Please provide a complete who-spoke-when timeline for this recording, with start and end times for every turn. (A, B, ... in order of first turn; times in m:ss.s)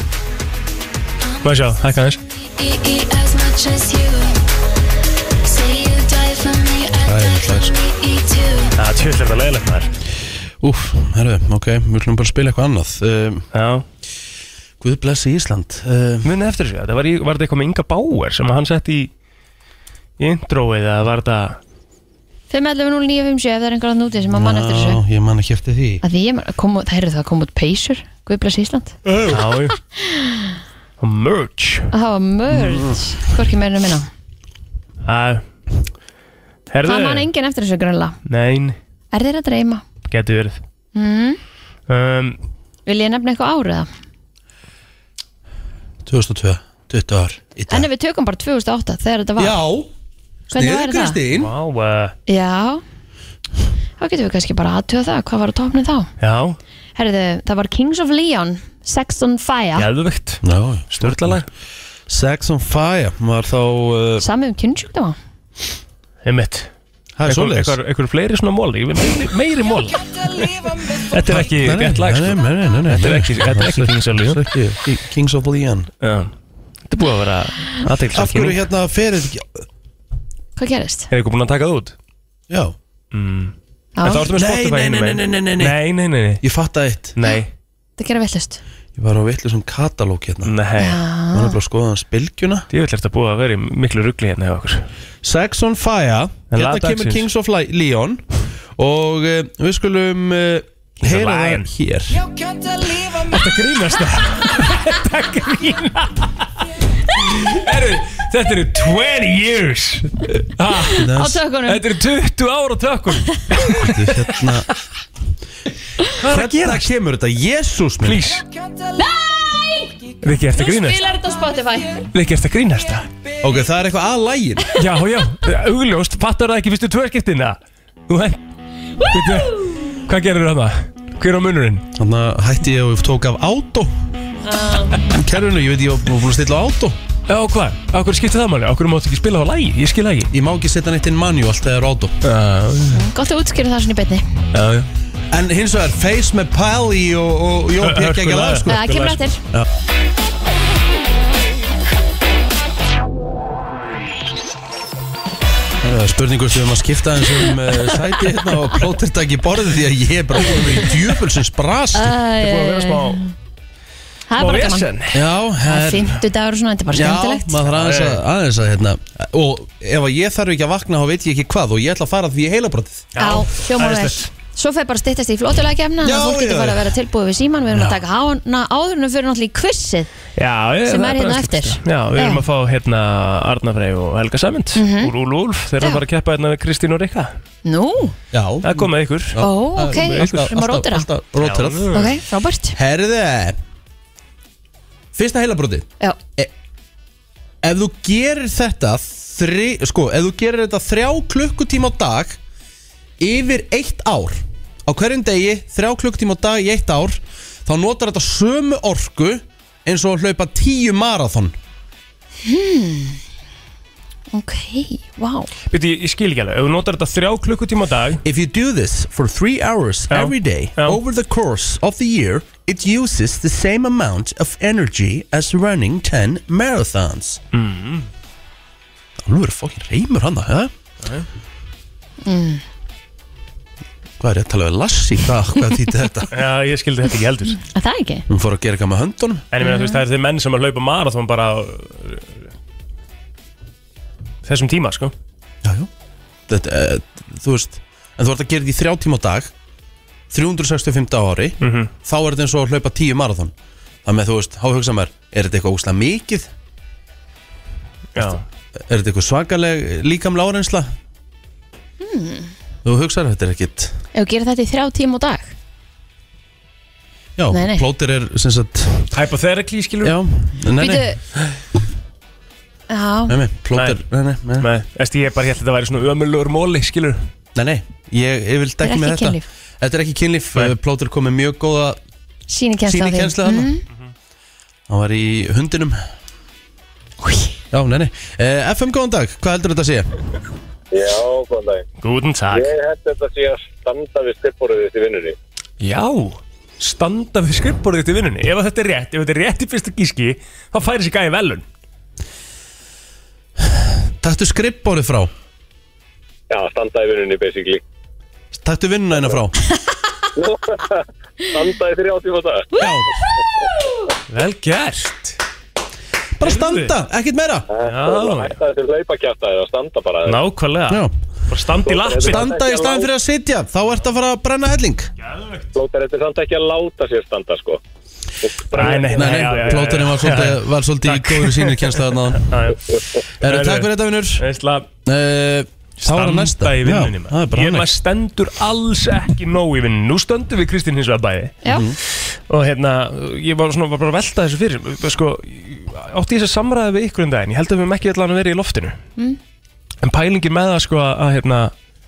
0:01.4-0:02.2 A
0:06.9-0:07.8 B
0:08.7-0:09.9 A
0:10.6-0:13.5 B
0:13.5-0:13.8 A
0:14.8-0:16.3 B
0:16.2-0:19.1 A
0:20.2-0:21.6 A
0:22.5-0:25.0 C
0:24.3-0:26.0 B
0:26.0-0:29.0 C
0:29.1-0:29.8 A
0:30.0-0:30.5 C
0:31.0-0:31.9 A
0:31.9-0:34.1 C
0:32.5-0:33.0 B
0:35.1-0:35.4 A
0:36.7-0:37.3 A
0:36.8-0:38.2 C
0:38.3-0:38.8 A
0:39.1-0:39.8 C
0:40.1-0:40.6 A
0:41.0-0:41.4 C
0:41.9-0:42.4 A
0:42.9-0:43.9 C
0:46.0-0:47.9 B
0:47.7-0:49.6 C
0:49.4-0:49.9 B
0:50.5-0:51.2 C
0:50.5-0:51.5 B
0:51.3-0:52.2 A
0:52.3-0:52.8 C
0:54.0-0:56.1 C
0:56.2-0:56.6 A
0:57.0-0:59.9 C
0:59.8-1:01.5 A
1:00.4-1:01.5 B
1:02.1-1:04.2 B
1:04.2-1:05.2 C
1:06.2-1:06.7 A
1:07.2-1:07.8 B
1:07.2-1:14.5 A
1:11.3-1:15.9 B
1:16.0-1:16.3 A
1:16.9-1:18.6 A
1:18.1-1:19.6 B
1:20.6-1:21.1 C
1:21.1-1:22.0 A
1:22.5-1:22.8 B
1:23.1-1:26.4 A
1:24.0-1:24.3 C
1:24.2-1:25.8 B
1:26.4-1:27.1 B
1:27.2-1:27.5 A
1:28.0-1:28.6 C
1:29.0-1:30.5 B
1:30.4-1:31.0 A
1:30.8-1:31.6 C
1:31.3-1:32.7 B
1:32.7-1:34.9 A
1:35.2-1:38.2 B
1:36.5-1:37.3 A
1:38.8-1:42.2 B
1:41.0-1:41.7 A
1:43.0-1:46.4 A
1:47.1-1:51.1 A
1:50.8-1:51.4 B
1:51.1-1:51.8 C
1:51.6-1:54.4 A
1:53.6-1:54.7 B
1:56.2-1:56.9 A
1:56.2-1:58.3 B
1:58.0-1:58.4 A
1:59.0-2:00.0 C
2:00.2-2:01.0 A
2:00.5-2:02.0 C
2:02.1-2:03.1 A
2:03.4-2:04.8 B
2:04.8-2:08.4 A
2:09.0-2:11.8 A
2:12.0-2:13.9 B
2:14.5-2:15.0 C
2:15.1-2:17.0 B
2:17.3-2:20.3 A
2:20.3-2:22.2 B
2:22.2-2:23.0 A
2:22.9-2:24.3 C
2:24.5-2:24.9 A
2:25.3-2:28.9 B
2:27.8-2:29.2 A
2:28.7-2:29.4 C
2:35.8-2:42.2 B
2:42.0-2:43.3 C
2:42.4-2:43.2 A
2:44.3-2:44.9 C
2:44.4-2:45.2 A
2:45.1-2:46.2 B
2:45.7-2:47.6 C
2:46.9-2:53.1 B
2:47.7-2:48.2 A
2:53.1-2:54.3 A
2:53.2-3:00.1 C
2:56.0-2:57.0 B
2:57.7-2:58.0 B
3:00.4-3:07.4 A
3:00.9-3:02.4 C
3:04.8-3:05.1 C
3:07.6-3:08.2 C
3:08.3-3:11.9 B
3:08.6-3:10.5 A
3:09.4-3:11.1 C
3:11.4-3:12.2 A
3:11.9-3:12.8 C
3:12.8-3:13.6 B
3:15.1-3:16.5 B
3:17.6-3:22.4 B
3:23.2-3:31.6 B
3:32.4-3:33.2 C
3:34.3-3:35.5 C
3:35.7-3:38.2 A
3:38.2-3:47.4 B
3:40.1-3:41.0 A
3:47.5-3:48.1 A
3:49.2-3:50.7 B
3:52.2-3:52.6 C
3:54.2-3:56.3 B
3:56.3-3:57.6 A
3:57.7-3:58.3 C
3:58.3-3:59.4 B
3:59.5-4:02.3 A
3:59.6-4:00.0 C
4:04.5-4:05.1 A
4:05.6-4:05.9 B
4:06.5-4:09.5 B
4:10.3-4:13.5 B
4:11.6-4:11.9 A
4:14.0-4:16.5 B
4:18.2-4:18.4 A
4:18.9-4:20.9 B
4:22.0-4:22.5 C
4:22.8-4:24.0 B
4:24.1-4:25.5 C
4:27.4-4:29.1 B
4:27.5-4:27.8 C
4:29.1-4:30.2 A
4:30.0-4:31.1 B
4:30.8-4:31.2 C
4:32.9-4:33.4 C
4:33.3-4:34.7 B
4:33.7-4:34.0 A
4:34.6-4:37.3 A
4:37.6-4:42.0 B
4:38.8-4:39.4 C
4:42.5-4:43.8 C
4:42.9-4:43.7 B
4:44.9-4:46.0 B
4:47.7-4:50.1 B
4:50.9-4:51.8 D
4:52.0-4:52.7 A
4:52.5-4:55.4 D
4:55.8-5:01.6 A
5:04.2-5:05.3 B
5:06.5-5:07.8 D
5:08.5-5:09.6 B
5:10.4-5:12.7 D
5:12.8-5:13.1 B
5:14.3-5:15.4 A
5:16.4-5:17.7 B
5:16.4-5:16.9 A
5:17.7-5:20.4 D
5:17.8-5:18.6 A
5:20.3-5:22.5 A
5:21.9-5:23.1 D
5:22.2-5:25.1 B
5:25.2-5:25.7 A
5:25.8-5:27.8 D
5:28.4-5:29.5 D
5:28.7-5:34.9 A
5:29.1-5:32.5 B
5:33.4-5:34.4 B
5:35.0-5:37.9 B
5:36.0-5:41.6 A
5:41.7-5:42.0 B
5:42.5-5:49.0 A
5:50.0-5:51.7 A